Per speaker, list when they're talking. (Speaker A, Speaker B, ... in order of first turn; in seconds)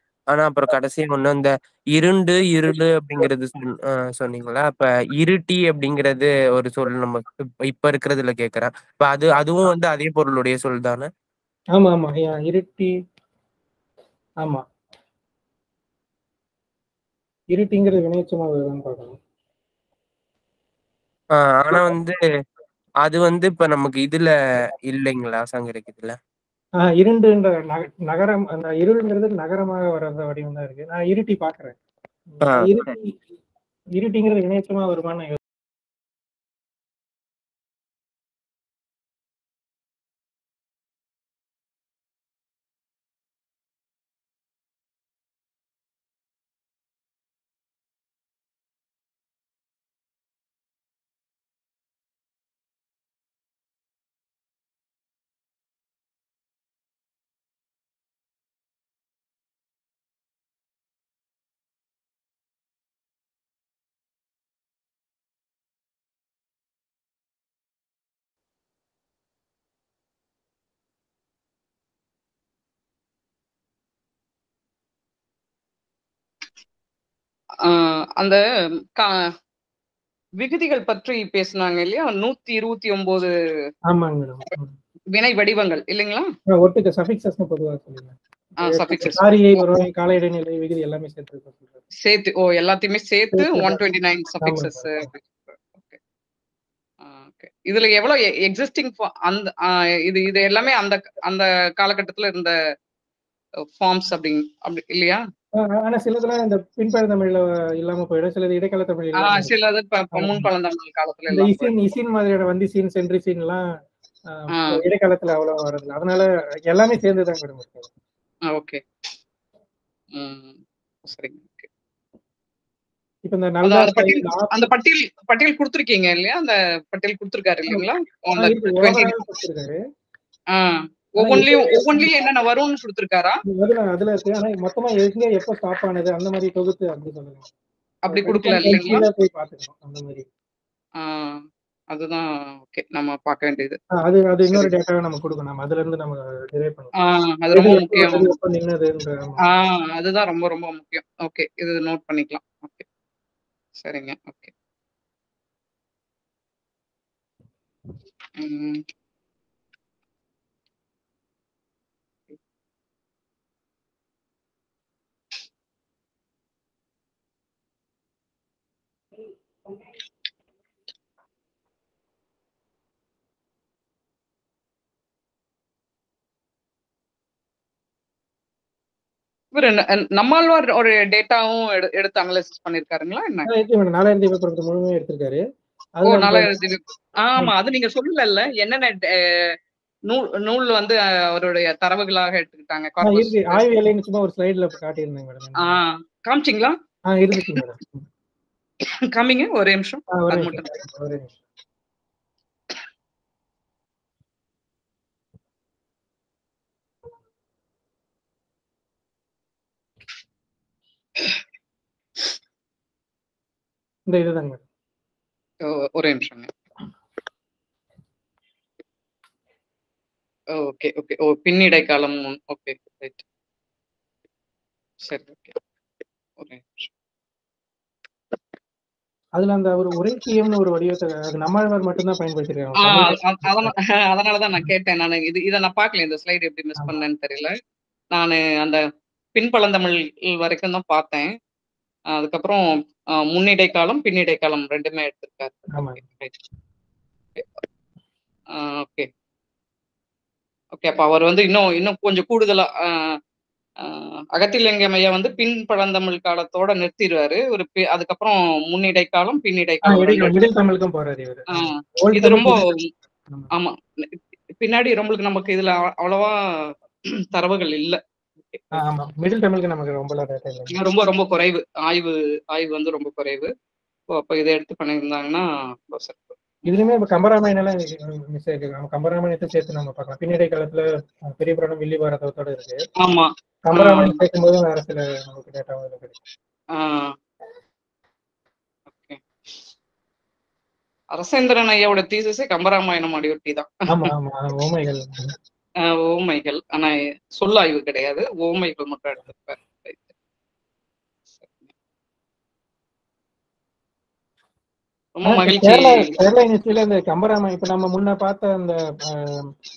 Speaker A: 0.3-11.1, 21.4-22.2, 23.0-24.3, 24.9-26.1, 32.5-32.9
Speaker B: 11.7-12.9, 17.5-19.2, 26.8-31.8, 32.3-33.2, 34.0-35.4, 83.9-84.7, 86.5-91.8, 93.3-93.8, 94.4-95.1, 105.6-109.5, 110.1-110.5, 111.3-113.6, 114.3-117.9, 123.2-124.7, 128.4-129.8, 131.2-132.1, 133.5-137.4, 138.1-140.2, 143.9-146.9, 147.5-149.4, 183.5-185.4, 186.0-186.5, 193.0-195.8, 197.1-198.0, 200.1-201.3, 214.1-214.6, 229.3-233.7, 245.7-246.0, 259.8-262.6, 268.7-270.7, 276.6-282.8, 283.6-286.2, 293.9-295.3, 305.2-309.5
Speaker C: 77.6-78.4, 78.9-79.3, 80.4-83.3, 85.1-86.3, 88.6-89.6, 92.0-96.0, 97.0-102.5, 103.7-105.2, 109.2-111.7, 114.5-114.8, 118.5-118.8, 120.1-120.5, 121.1-121.7, 123.6-129.1, 130.5-133.4, 138.0-139.0, 141.0-143.8, 147.0-148.3, 149.5-152.8, 153.8-154.5, 158.4-158.8, 179.5-183.5, 186.1-189.6, 190.1-193.7, 195.6-196.8, 199.1-200.7, 215.6-216.5, 220.5-223.2, 225.0-225.6, 226.4-226.9, 232.8-237.5, 238.1-238.8, 239.3-241.3, 242.1-246.4, 248.5-249.1, 250.7-253.2, 253.8-260.3, 261.6-262.9, 263.5-266.7, 267.3-268.7, 270.7-273.5, 274.1-276.4, 283.0-284.2, 286.7-287.1, 288.9-289.2, 291.1-293.9, 295.8-300.1, 301.4-301.7, 305.1-306.1